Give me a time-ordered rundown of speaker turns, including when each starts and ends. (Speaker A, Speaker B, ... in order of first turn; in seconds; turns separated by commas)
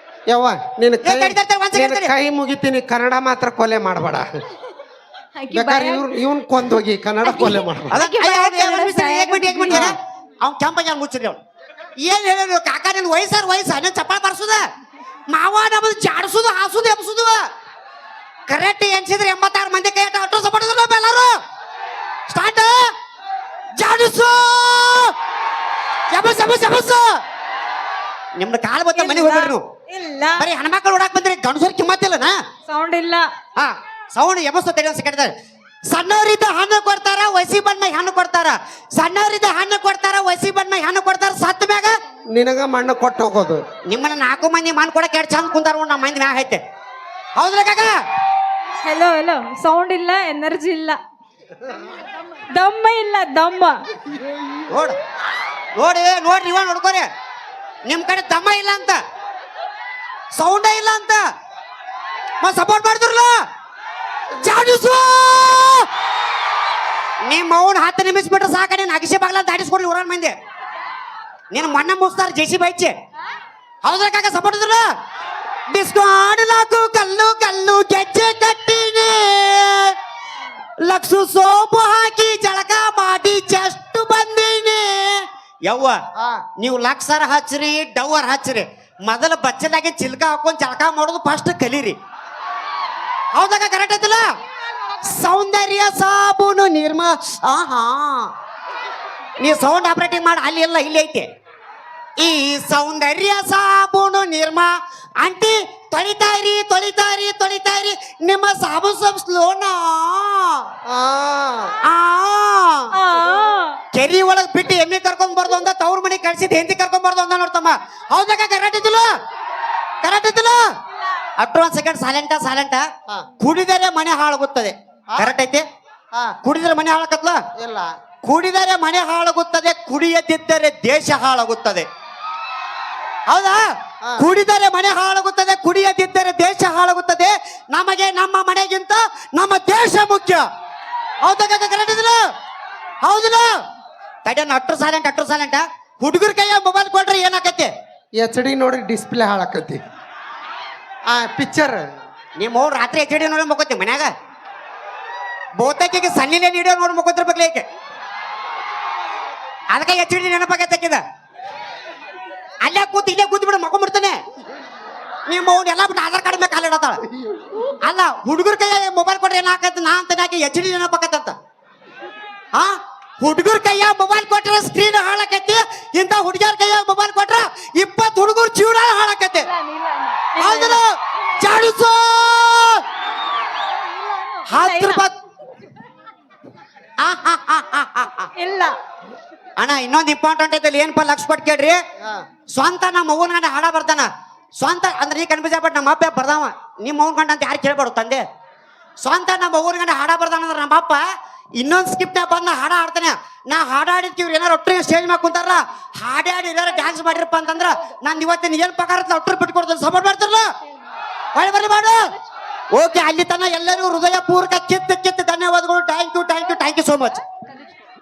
Speaker A: 0.3-4.3, Speaker B: 1.0-2.1, Speaker C: 5.4-6.1, Speaker A: 5.5-8.0, Speaker C: 7.2-9.9, Speaker B: 7.9-11.4, Speaker B: 12.0-14.6, Speaker B: 15.3-17.4, Speaker B: 18.5-21.3, Speaker B: 22.3-22.9, Speaker B: 23.8-25.1, Speaker B: 26.1-27.1, Speaker B: 28.4-29.6, Speaker C: 28.9-30.4, Speaker B: 30.4-32.4, Speaker C: 32.6-33.2, Speaker B: 33.6-35.3, Speaker B: 35.9-41.9, Speaker A: 42.3-43.6, Speaker B: 43.9-46.6, Speaker B: 47.3-47.9, Speaker C: 48.8-51.0, Speaker C: 52.5-53.7, Speaker B: 54.7-55.0, Speaker B: 55.8-57.0, Speaker B: 57.9-59.0, Speaker B: 60.3-61.2, Speaker B: 62.4-63.4, Speaker B: 64.4-65.8, Speaker B: 67.3-70.3, Speaker B: 71.5-72.9, Speaker B: 73.8-74.8, Speaker B: 75.7-79.9, Speaker B: 80.8-86.0, Speaker A: 86.2-86.4, Speaker B: 86.6-92.0, Speaker B: 93.3-94.2, Speaker B: 95.0-98.3, Speaker B: 99.4-101.2, Speaker B: 102.2-110.6, Speaker A: 110.9-111.8, Speaker B: 111.8-112.9, Speaker C: 112.9-113.8, Speaker B: 113.9-119.0, Speaker B: 120.0-120.6, Speaker B: 121.4-122.8, Speaker B: 123.4-125.6, Speaker B: 126.4-127.4, Speaker A: 127.6-127.9, Speaker B: 128.2-131.8, Speaker B: 133.3-133.6, Speaker B: 134.2-140.4, Speaker B: 141.2-142.2, Speaker B: 143.0-143.5, Speaker B: 144.2-147.7, Speaker A: 148.2-149.8, Speaker A: 151.1-151.8, Speaker B: 152.4-154.1, Speaker B: 155.6-157.6, Speaker B: 159.7-161.0, Speaker B: 162.6-164.2, Speaker B: 165.3-167.0, Speaker B: 167.8-171.3, Speaker B: 172.5-179.5, Speaker C: 179.4-180.8, Speaker B: 180.4-180.8, Speaker B: 181.4-182.8, Speaker C: 183.8-185.1, Speaker B: 184.5-185.1, Speaker B: 187.0-188.3, Speaker C: 188.3-188.7, Speaker B: 189.6-191.8, Speaker B: 192.5-194.1, Speaker B: 194.6-198.2, Speaker B: 199.0-201.0, Speaker B: 201.6-210.4, Speaker B: 211.3-212.0, Speaker B: 212.7-217.2